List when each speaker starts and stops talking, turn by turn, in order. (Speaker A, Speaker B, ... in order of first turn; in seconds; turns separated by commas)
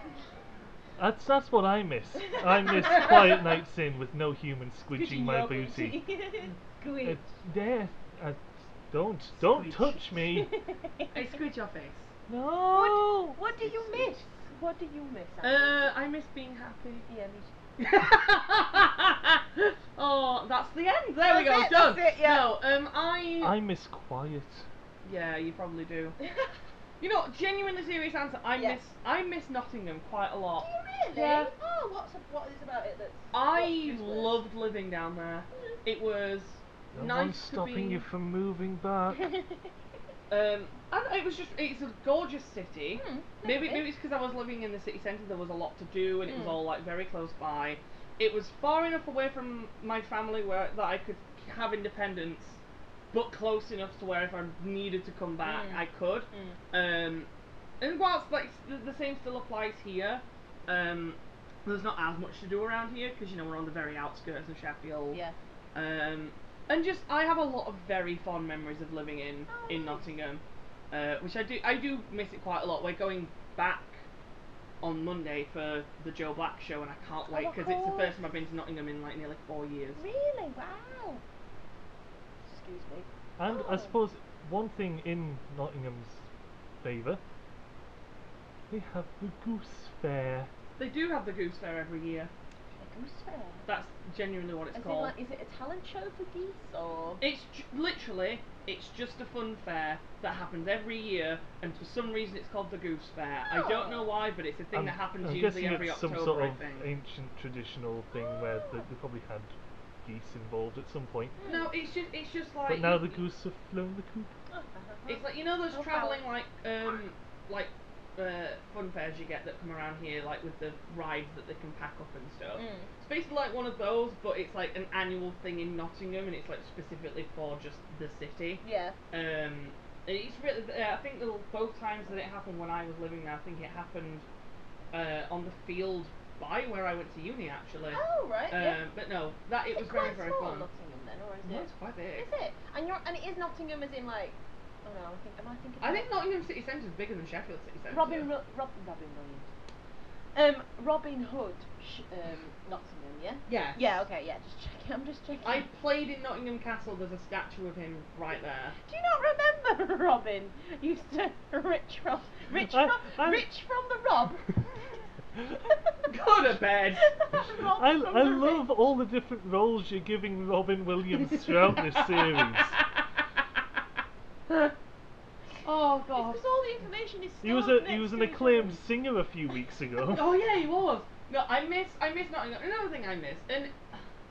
Speaker A: 1.0-6.0, Speaker B: 2.6-3.1, Speaker B: 4.9-7.2, Speaker A: 7.0-10.5, Speaker B: 9.4-11.1, Speaker C: 11.1-12.1, Speaker A: 12.3-14.1, Speaker B: 12.7-15.9, Speaker C: 15.4-17.1, Speaker B: 17.1-17.5, Speaker C: 17.8-23.6, Speaker B: 21.2-22.5, Speaker A: 23.4-24.7, Speaker C: 25.0-26.1, Speaker C: 27.0-31.5, Speaker B: 28.6-28.8, Speaker B: 30.6-34.4, Speaker C: 33.3-38.0, Speaker A: 36.9-39.2, Speaker B: 39.1-39.7, Speaker C: 40.3-52.6, Speaker B: 43.0-43.9, Speaker B: 46.3-46.6, Speaker C: 53.1-57.3, Speaker B: 55.4-56.6, Speaker C: 57.8-65.2, Speaker C: 65.7-74.0, Speaker B: 69.5-70.0, Speaker C: 74.8-80.0, Speaker B: 77.3-78.2, Speaker B: 80.0-81.2, Speaker B: 82.4-84.0, Speaker A: 83.4-86.2, Speaker A: 86.8-87.2, Speaker A: 88.7-90.5, Speaker C: 90.8-92.3, Speaker B: 92.8-93.7, Speaker C: 93.7-95.1, Speaker B: 94.7-97.2, Speaker C: 97.2-106.9, Speaker B: 103.5-104.2, Speaker A: 104.7-111.4, Speaker B: 108.1-108.9, Speaker B: 111.4-111.7, Speaker C: 111.5-113.2, Speaker A: 112.7-114.3, Speaker B: 114.5-116.3, Speaker C: 115.1-134.2, Speaker B: 122.5-122.9, Speaker B: 128.6-128.9, Speaker C: 134.9-140.7, Speaker B: 137.9-138.8, Speaker B: 139.7-146.1, Speaker C: 141.4-142.3, Speaker C: 145.8-148.3, Speaker B: 147.9-149.5, Speaker B: 150.3-155.7, Speaker C: 153.5-154.0, Speaker C: 155.4-158.8, Speaker B: 158.8-164.9, Speaker A: 162.7-163.4, Speaker C: 166.1-167.0, Speaker B: 167.0-168.7, Speaker A: 167.8-172.8, Speaker C: 175.6-176.4, Speaker B: 176.2-178.8, Speaker A: 177.4-180.4, Speaker C: 180.1-183.8